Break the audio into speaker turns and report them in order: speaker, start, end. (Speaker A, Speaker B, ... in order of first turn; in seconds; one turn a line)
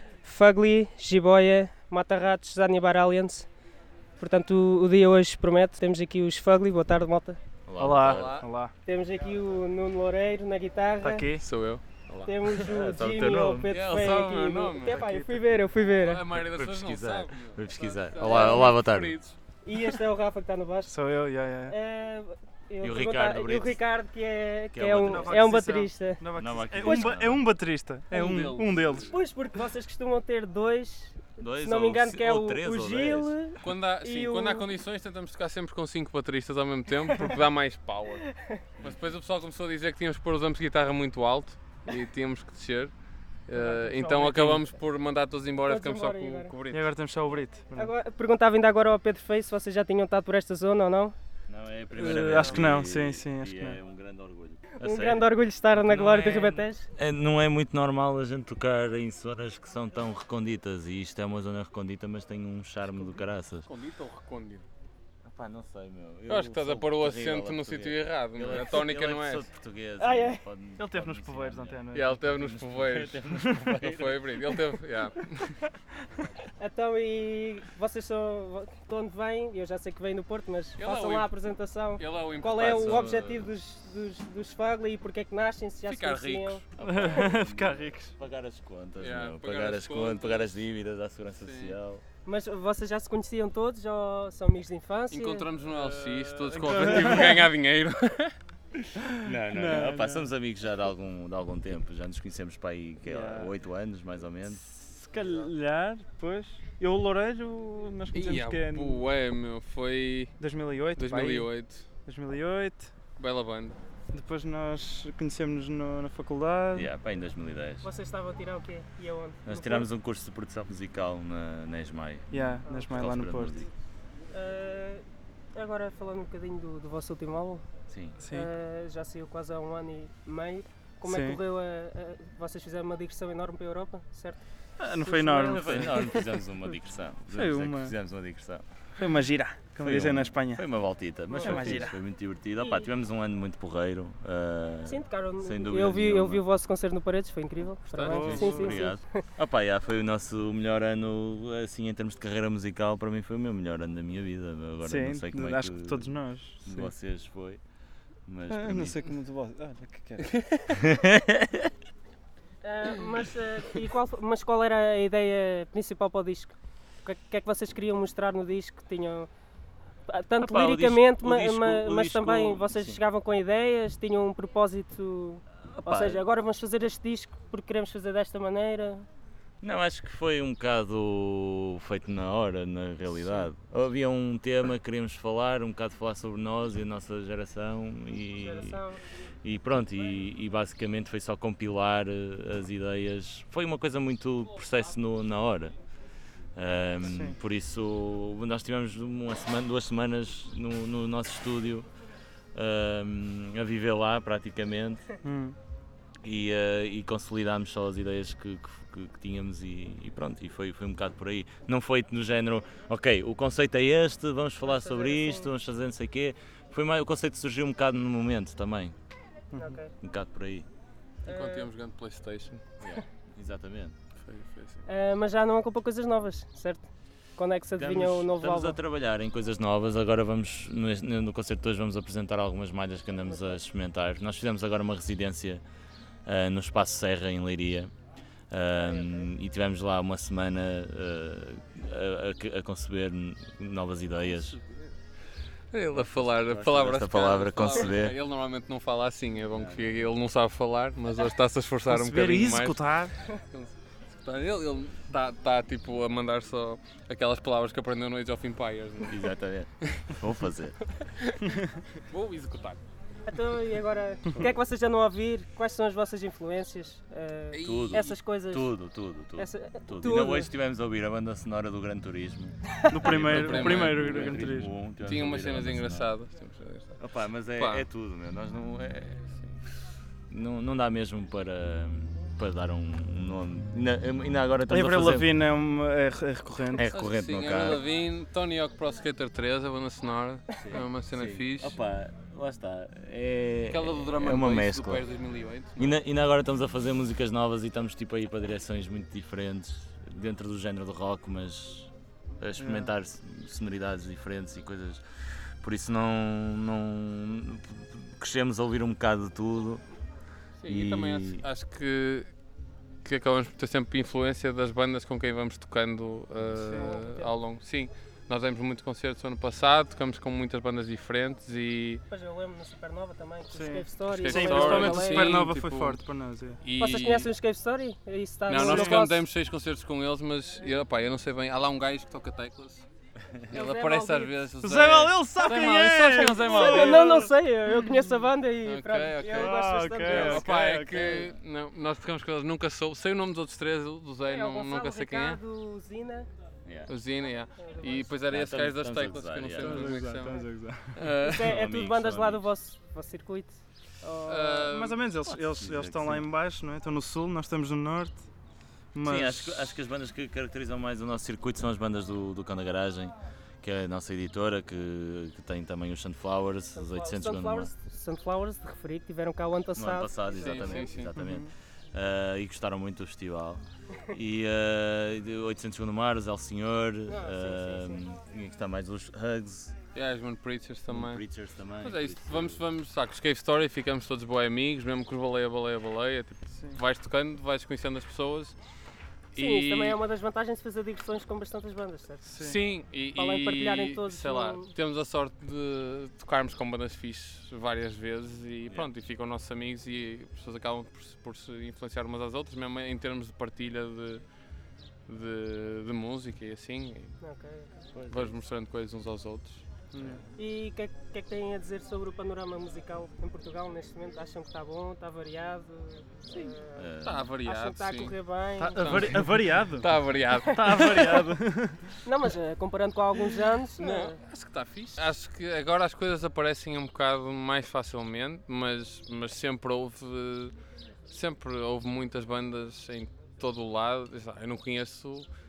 Speaker A: 0.2-3.5
Speaker A: 4.2-7.4
Speaker B: 7.7-8.4
Speaker C: 7.8-8.7
Speaker D: 8.0-8.5
Speaker A: 8.8-11.3
Speaker C: 11.0-11.4
Speaker D: 11.4-12.3
Speaker A: 12.2-16.2
Speaker B: 12.6-14.0
Speaker D: 13.7-15.0
Speaker C: 14.9-15.4
Speaker D: 16.0-19.4
Speaker B: 16.3-19.2
Speaker A: 18.2-18.7
Speaker A: 19.6-20.9
Speaker C: 20.9-21.8
Speaker A: 21.7-26.2
Speaker B: 22.8-23.8
Speaker B: 24.7-25.5
Speaker C: 25.1-29.1
Speaker B: 26.4-27.4
Speaker A: 26.8-27.1
Speaker D: 28.1-29.1
Speaker A: 28.1-34.6
Speaker B: 31.4-33.3
Speaker D: 33.6-38.3
Speaker A: 38.2-38.6
Speaker D: 38.8-42.9
Speaker D: 43.5-46.9
Speaker A: 43.5-44.7
Speaker A: 45.7-46.5
Speaker C: 46.7-47.9
Speaker A: 47.7-51.1
Speaker B: 51.5-55.3
Speaker C: 51.9-53.8
Speaker D: 52.3-52.7
Speaker A: 54.8-56.9
Speaker B: 55.9-63.7
Speaker D: 55.9-56.5
Speaker D: 63.6-64.7
Speaker B: 65.2-71.8
Speaker D: 66.3-69.5
Speaker A: 70.0-70.4
Speaker C: 70.8-72.3
Speaker D: 71.9-73.2
Speaker B: 72.3-74.4
Speaker C: 73.4-73.7
Speaker D: 73.8-75.6
Speaker A: 76.6-86.6
Speaker D: 80.8-81.3
Speaker D: 82.0-83.5
Speaker B: 82.7-83.3
Speaker D: 85.8-86.7
Speaker B: 86.8-92.0
Speaker C: 86.8-88.1
Speaker D: 89.0-90.6
Speaker D: 91.4-91.8
Speaker A: 92.2-95.5
Speaker D: 95.1-98.3
Speaker C: 95.7-97.5
Speaker B: 99.1-104.6
Speaker C: 99.3-100.3
Speaker C: 103.0-103.5
Speaker C: 104.7-109.0
Speaker D: 108.1-110.3
Speaker C: 110.4-111.5
Speaker D: 111.0-111.9
Speaker C: 112.0-112.9
Speaker D: 113.2-113.8
Speaker C: 114.1-116.9
Speaker B: 116.7-117.9
Speaker A: 117.8-119.9
Speaker B: 119.5-123.7
Speaker C: 122.3-123.7
Speaker A: 122.6-122.9
Speaker A: 124.3-127.6
Speaker B: 127.9-128.2
Speaker C: 128.2-128.5
Speaker A: 128.2-134.4
Speaker C: 131.1-131.4
Speaker C: 134.8-136.4
Speaker B: 135.0-138.6
Speaker C: 137.3-137.9
Speaker C: 139.0-140.6
Speaker B: 139.8-146.4
Speaker A: 141.3-142.0
Speaker C: 141.4-141.9
Speaker A: 142.6-142.9
Speaker A: 144.8-149.2
Speaker D: 147.9-148.5
Speaker C: 148.0-148.7
Speaker B: 148.1-157.6
Speaker C: 154.8-156.9
Speaker B: 158.2-159.0
Speaker C: 158.5-160.3
Speaker B: 160.7-161.7
Speaker A: 162.6-169.3
Speaker A: 170.1-179.1
Speaker B: 170.4-173.0
Speaker B: 175.7-176.2
Speaker B: 179.6-188.8
Speaker A: 188.4-189.0
Speaker B: 189.4-195.7
Speaker B: 196.6-201.9
Speaker C: 197.1-197.4
Speaker B: 202.5-205.1
Speaker C: 205.2-205.6
Speaker B: 206.2-218.9
Speaker A: 214.6-215.5
Speaker A: 219.5-219.9
Speaker B: 220.0-220.7
Speaker D: 221.2-222.6
Speaker A: 221.2-221.7
Speaker B: 222.8-223.9
Speaker D: 224.2-224.8
Speaker A: 224.9-228.8
Speaker B: 227.8-235.6
Speaker A: 233.2-233.6
Speaker B: 236.2-237.9
Speaker B: 238.5-244.6
Speaker A: 238.8-239.2
Speaker D: 244.3-244.9
Speaker D: 245.7-259.3
Speaker B: 245.9-248.2
Speaker B: 249.5-250.1
Speaker C: 251.9-253.1
Speaker B: 259.1-260.8
Speaker D: 259.9-260.2
Speaker D: 261.2-262.8
Speaker A: 263.2-268.7
Speaker D: 267.5-268.2
Speaker B: 267.6-276.1
Speaker A: 269.4-270.5
Speaker C: 272.9-274.7
Speaker D: 273.0-274.5
Speaker D: 275.0-277.8
Speaker B: 277.0-279.6
Speaker B: 280.3-285.3
Speaker C: 284.7-286.9
Speaker B: 286.7-287.8
Speaker D: 286.8-291.8
Speaker B: 290.6-295.0
Speaker D: 293.7-295.9
Speaker B: 295.8-305.0
Speaker C: 302.6-302.9
Speaker B: 305.6-309.8
Speaker D: 310.6-312.3
Speaker B: 310.7-311.4
Speaker D: 313.0-322.0
Speaker C: 316.5-317.0
Speaker A: 316.7-317.3
Speaker A: 322.1-325.4
Speaker C: 323.5-326.6
Speaker D: 324.1-326.0
Speaker D: 326.6-327.3
Speaker A: 326.8-329.2
Speaker D: 328.5-332.9
Speaker C: 328.5-329.0
Speaker D: 333.5-337.3
Speaker A: 333.5-334.3
Speaker C: 334.6-338.1
Speaker A: 336.4-340.4
Speaker D: 338.6-339.5
Speaker C: 339.3-341.3
Speaker D: 340.1-345.4
Speaker A: 344.2-346.3
Speaker B: 346.6-346.9
Speaker D: 346.9-350.4
Speaker A: 347.6-348.1
Speaker B: 348.3-350.0
Speaker C: 349.6-350.9
Speaker D: 350.9-351.5
Speaker A: 351.2-354.7
Speaker B: 351.4-352.4
Speaker D: 354.3-355.0
Speaker C: 354.7-358.2
Speaker B: 355.2-356.2
Speaker C: 358.9-359.6
Speaker B: 359.0-367.7
Speaker A: 366.7-371.0
Speaker B: 369.7-379.7
Speaker D: 370.3-371.1
Speaker C: 371.1-371.5
Speaker A: 377.1-378.0
Speaker D: 379.9-381.2
Speaker B: 380.9-382.6
Speaker D: 381.8-388.6
Speaker D: 389.3-390.0
Speaker A: 389.3-392.3
Speaker C: 392.2-392.6
Speaker D: 392.4-404.2
Speaker A: 393.1-394.7
Speaker D: 405.1-407.1
Speaker A: 407.2-407.7
Speaker B: 407.9-408.3
Speaker D: 408.1-409.6
Speaker C: 409.9-410.2
Speaker B: 409.9-410.2
Speaker A: 410.4-419.2
Speaker B: 416.7-417.3
Speaker D: 417.0-418.1
Speaker C: 418.6-419.9
Speaker D: 418.8-421.2
Speaker C: 420.4-422.0
Speaker A: 422.0-424.2
Speaker D: 423.7-430.5
Speaker D: 431.1-435.3